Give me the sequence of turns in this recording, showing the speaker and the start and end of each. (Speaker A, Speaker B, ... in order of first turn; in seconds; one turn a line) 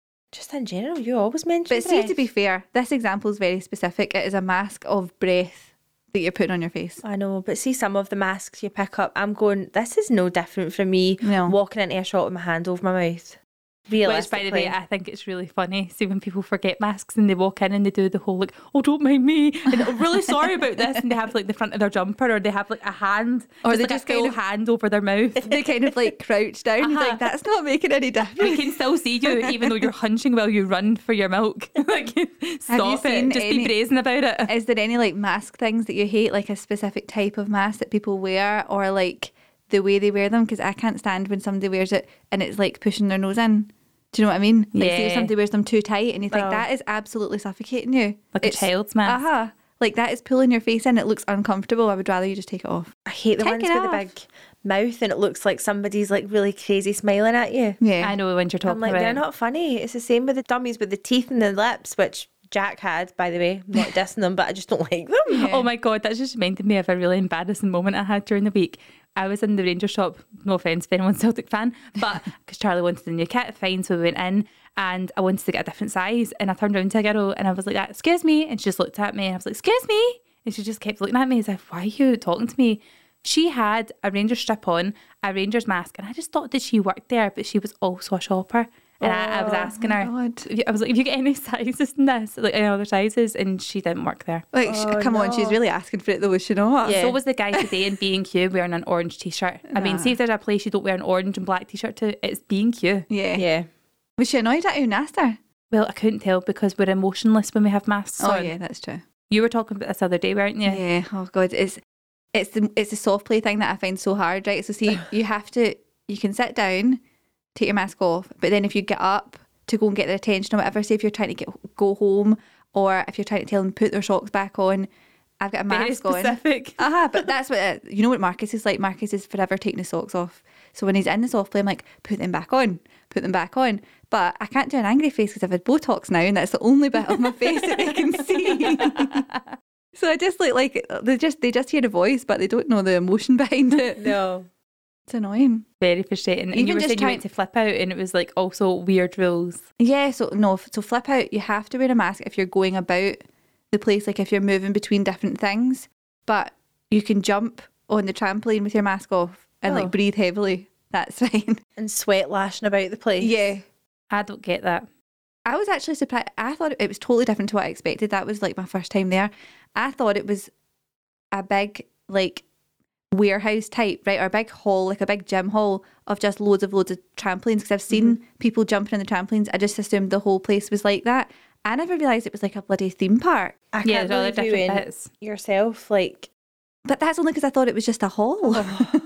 Speaker A: 0.3-2.2
Speaker B: 1.7-7.0
Speaker A: 7.0-14.7
Speaker B: 11.2-11.6
Speaker C: 14.1-25.6
Speaker B: 19.7-20.4
Speaker B: 23.6-24.4
Speaker B: 25.4-29.9
Speaker C: 26.8-27.2
Speaker C: 28.4-34.5
Speaker B: 32.7-33.8
Speaker B: 34.5-54.1
Speaker C: 44.8-45.3
Speaker A: 46.3-46.7
Speaker C: 48.3-49.2
Speaker A: 53.1-57.8
Speaker B: 57.8-58.2
Speaker C: 58.0-59.2
Speaker A: 58.6-65.5
Speaker B: 65.3-65.7
Speaker C: 65.4-94.5
Speaker B: 89.0-90.5
Speaker B: 94.5-97.1
Speaker A: 94.7-95.6
Speaker A: 96.8-97.2
Speaker C: 96.9-103.1
Speaker B: 99.7-100.2
Speaker B: 103.1-103.5
Speaker A: 103.4-103.7
Speaker B: 104.2-105.4
Speaker C: 105.7-108.5
Speaker B: 108.2-109.0
Speaker C: 109.3-110.8
Speaker B: 110.7-111.8
Speaker B: 112.3-117.0
Speaker B: 117.5-124.9
Speaker B: 125.4-139.3
Speaker C: 125.7-126.8
Speaker C: 138.4-139.4
Speaker B: 139.9-144.0
Speaker A: 143.9-144.5
Speaker B: 145.1-145.7
Speaker C: 145.8-149.6
Speaker B: 146.5-147.2
Speaker B: 149.8-161.6
Speaker A: 159.7-160.0
Speaker A: 161.8-163.4
Speaker B: 163.2-163.6
Speaker C: 164.1-164.9
Speaker B: 165.5-170.5
Speaker B: 171.3-172.4
Speaker B: 173.1-183.6
Speaker A: 183.7-186.3
Speaker C: 183.8-185.1
Speaker B: 186.9-189.0
Speaker A: 188.4-188.9